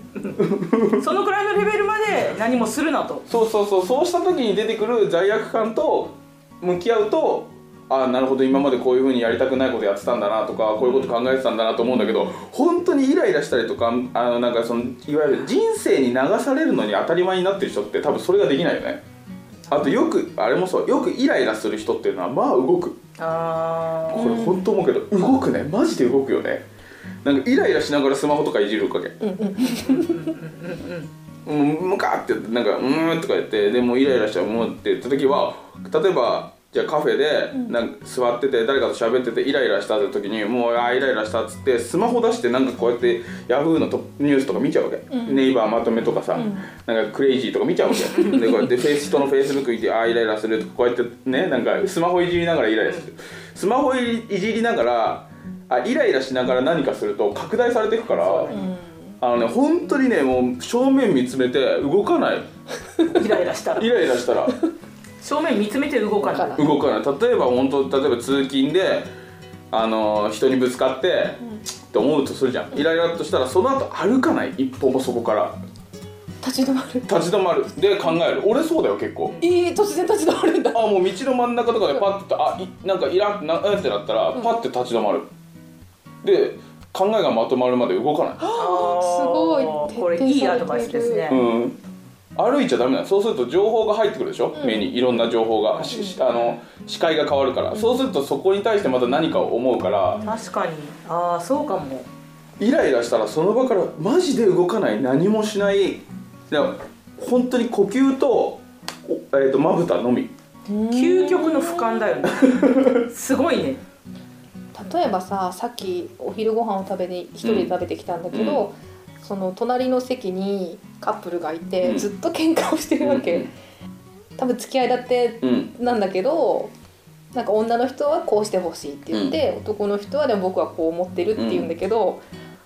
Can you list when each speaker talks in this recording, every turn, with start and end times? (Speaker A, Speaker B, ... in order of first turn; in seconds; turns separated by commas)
Speaker A: 0.4-1.0, Speaker B: 0.9-3.2, Speaker A: 3.3-19.0, Speaker B: 10.8-11.2, Speaker A: 19.7-23.0, Speaker B: 23.2-24.4, Speaker A: 24.1-26.6, Speaker C: 24.1-24.7, Speaker A: 27.2-29.2, Speaker C: 29.2-30.3, Speaker B: 29.8-31.1, Speaker A: 31.4-58.5, Speaker C: 45.1-45.6, Speaker B: 46.0-46.5, Speaker C: 46.4-46.6, Speaker B: 58.1-58.7, Speaker C: 58.5-59.1, Speaker A: 59.2-62.5, Speaker B: 63.1-64.0, Speaker A: 63.8-64.5, Speaker B: 65.2-66.6, Speaker C: 66.2-66.7, Speaker A: 66.6-69.1, Speaker A: 69.7-75.6, Speaker C: 76.4-77.1, Speaker A: 77.1-79.4, Speaker C: 79.4-80.9, Speaker A: 80.7-85.3, Speaker A: 86.2-88.5, Speaker C: 88.4-91.3, Speaker B: 88.6-91.5, Speaker A: 91.3-91.8, Speaker A: 92.4-100.2, Speaker C: 94.5-94.9, Speaker B: 95.7-96.6, Speaker C: 95.9-96.2, Speaker B: 100.2-102.1, Speaker A: 102.6-110.3, Speaker C: 110.7-112.2, Speaker B: 110.9-113.8, Speaker A: 112.4-113.0, Speaker C: 114.8-123.5, Speaker A: 117.4-117.7, Speaker A: 118.3-118.7, Speaker A: 121.8-122.1, Speaker A: 123.0-123.5, Speaker C: 124.4-126.7, Speaker A: 125.4-125.7, Speaker C: 127.3-132.2, Speaker A: 129.1-129.4, Speaker A: 131.3-131.7